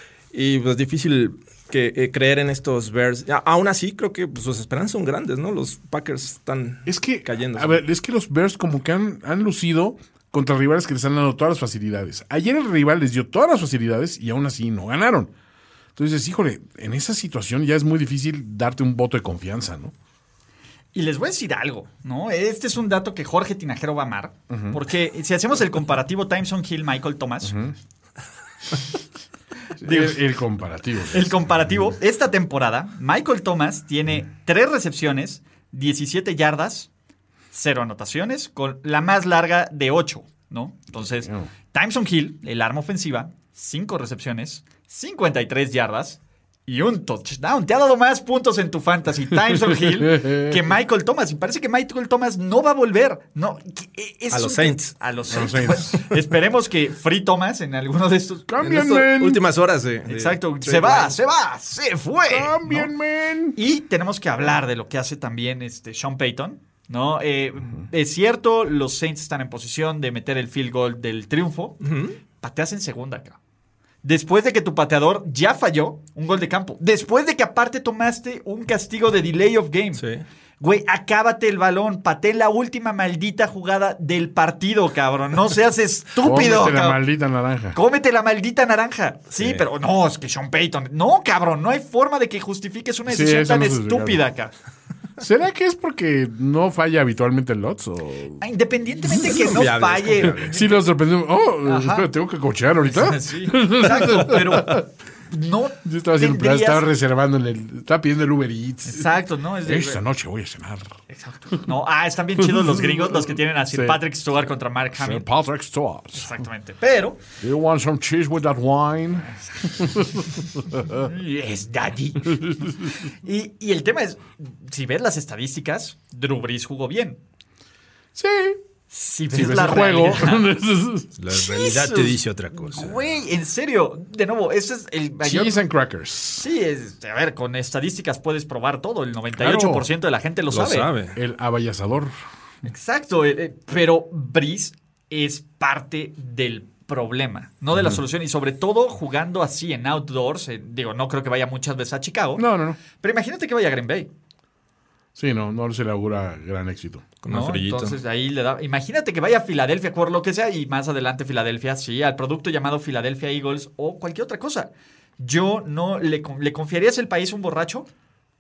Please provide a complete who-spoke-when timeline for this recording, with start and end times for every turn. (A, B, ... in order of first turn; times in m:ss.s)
0:00.3-0:07.8 A
0:06.9-0:15.3 B
0:16.0-0:19.9 B
0:20.9-0:27.6 C
0:24.5-0:24.8 B
0:27.4-0:27.7 B
0:29.8-0:30.2 C
0:29.8-0:31.4 B
0:31.1-0:36.9 C
0:37.5-0:58.5 C
0:41.0-0:41.5 B
0:49.8-0:50.6 B
0:54.3-0:54.9 A
0:55.3-0:55.9 B
0:58.5-0:59.4 B
0:58.6-1:01.2 A
1:00.1-1:02.9 C
1:02.3-1:03.6 B
1:03.6-1:11.8 C
1:11.8-1:12.2 A
1:12.4-1:13.4 C
1:14.0-1:20.0 C
1:20.0-1:20.2 A
1:20.6-1:27.0 C
1:26.2-1:27.8 B
1:27.7-1:34.5 C
1:29.4-1:29.6 A
1:33.1-1:34.2 B
1:35.2-1:38.4 B
1:38.4-1:40.6 C
1:39.2-1:40.7 A
1:40.4-1:44.8 B
1:41.6-1:42.1 C
1:42.8-1:46.8 C
1:45.8-1:51.0 B
1:48.9-1:50.0 C
1:51.1-1:55.2 C
1:52.5-1:54.0 B
1:55.0-1:56.4 B
1:56.1-1:57.2 C
1:57.4-2:01.1 B
1:59.7-1:59.9 C
2:00.9-2:07.2 C
2:08.2-2:08.6 B
2:08.9-2:10.4 C
2:09.3-2:11.1 B
2:11.2-2:13.0 A
2:11.3-2:15.6 C
2:15.2-2:16.5 B
2:16.4-2:20.9 C
2:19.4-2:19.9 B
2:20.5-2:21.2 A
2:21.2-2:22.1 B
2:22.6-2:34.1 C
2:32.4-2:32.8 B
2:35.2-2:37.1 B
2:37.2-2:38.0 A
2:37.3-2:47.9 C